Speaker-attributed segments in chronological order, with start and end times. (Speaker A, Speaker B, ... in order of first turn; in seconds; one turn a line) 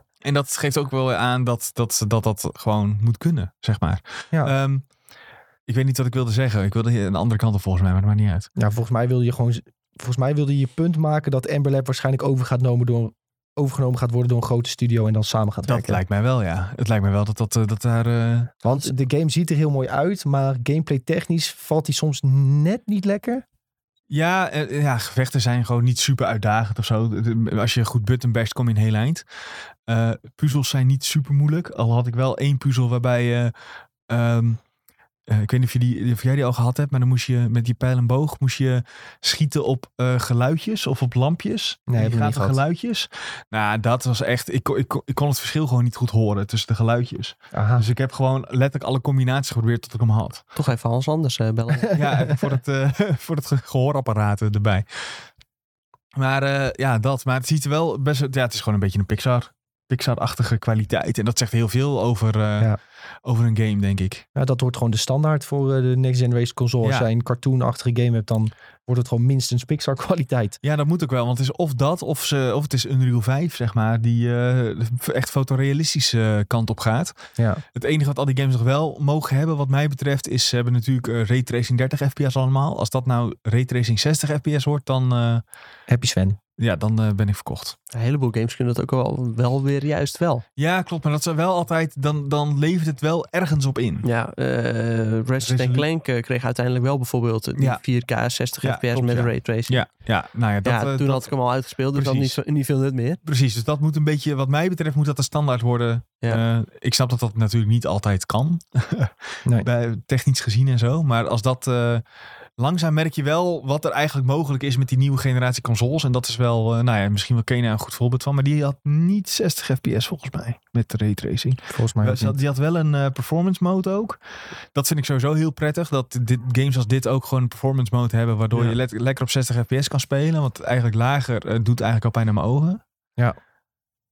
Speaker A: 0.2-4.9
Speaker A: 5.7-8.5
Speaker B: 8.6-16.0
Speaker A: 15.7-18.6
Speaker B: 18.6-23.4
Speaker A: 24.1-29.2
Speaker A: 29.9-33.5
Speaker A: 34.1-34.6
Speaker A: 35.3-50.5
Speaker B: 41.9-42.6
Speaker B: 47.5-47.9
Speaker C: 50.5-51.9
Speaker B: 51.9-52.3
Speaker A: 51.9-55.3
Speaker A: 56.1-64.2
Speaker B: 64.3-70.6
Speaker A: 66.8-67.1
Speaker A: 70.6-77.1
Speaker B: 77.4-77.6
Speaker A: 77.7-85.4
Speaker B: 85.9-86.4
Speaker A: 86.6-87.8
Speaker C: 87.9-90.4
Speaker A: 90.6-94.1
Speaker C: 94.0-99.9
Speaker A: 95.4-95.9
Speaker A: 97.6-97.8
Speaker A: 98.6-101.3
Speaker C: 100.6-103.2
Speaker A: 101.9-102.4
Speaker A: 103.2-112.0
Speaker A: 112.6-124.2
Speaker B: 121.7-122.4
Speaker A: 124.7-132.8
Speaker B: 128.5-128.8